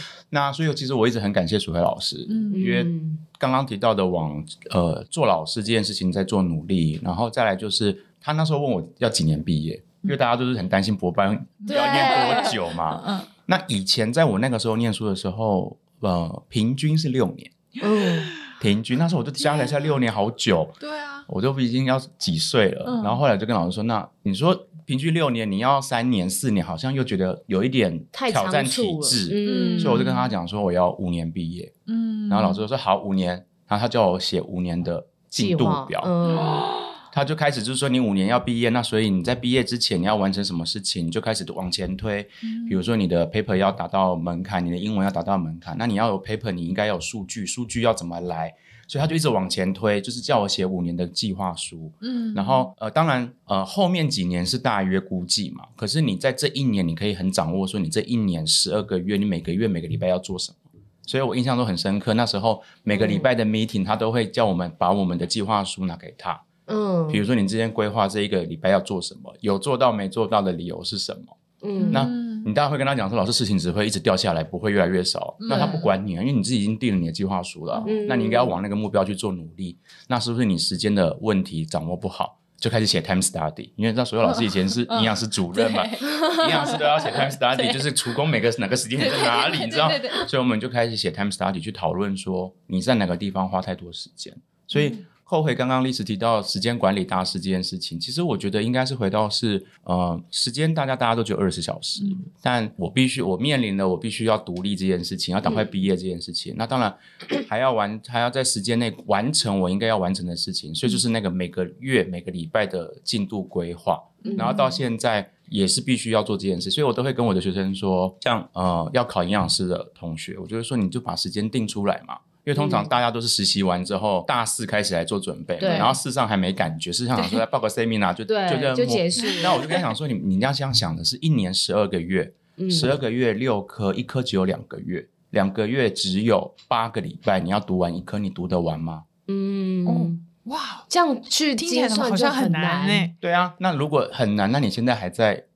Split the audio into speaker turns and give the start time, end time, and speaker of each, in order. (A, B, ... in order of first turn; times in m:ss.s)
0:00.3-0:17.5 A
0:02.3-0:02.7 B
0:02.5-0:03.2 C
0:11.6-0:13.3 B
0:11.7-0:12.6 C
0:17.8-0:18.3 C
0:18.6-0:31.7 A
0:19.4-0:19.8 B
0:20.8-0:21.3 B
0:22.9-0:23.2 B
0:28.1-0:30.0 C
0:29.4-0:30.3 B
0:31.9-0:32.6 B
0:32.3-0:36.1 A
0:35.4-0:36.7 C
0:36.3-0:36.9 B
0:37.1-1:06.4 A
0:42.4-0:42.8 B
0:52.0-0:52.7 B
1:02.9-1:03.3 C
1:06.7-1:07.2 C
1:07.1-1:11.4 A
1:11.6-1:12.1 C
1:11.8-1:12.5 B
1:11.9-2:19.1 A
1:15.4-1:15.9 B
1:15.5-1:15.8 C
1:17.7-1:18.0 B
1:17.8-1:18.6 C
1:24.4-1:27.9 B
1:29.0-1:30.3 B
1:34.7-1:35.0 B
1:54.2-1:54.6 C
1:54.2-1:54.8 B
2:02.6-2:02.9 C
2:05.6-2:06.0 C
2:05.7-2:05.9 B
2:07.2-2:07.4 B
2:08.3-2:09.8 C
2:09.2-2:09.8 B
2:12.6-2:12.9 C
2:19.3-2:20.2 C
2:19.9-2:20.9 B
2:20.9-2:23.1 C
2:21.6-2:23.1 B
2:23.2-2:25.4 A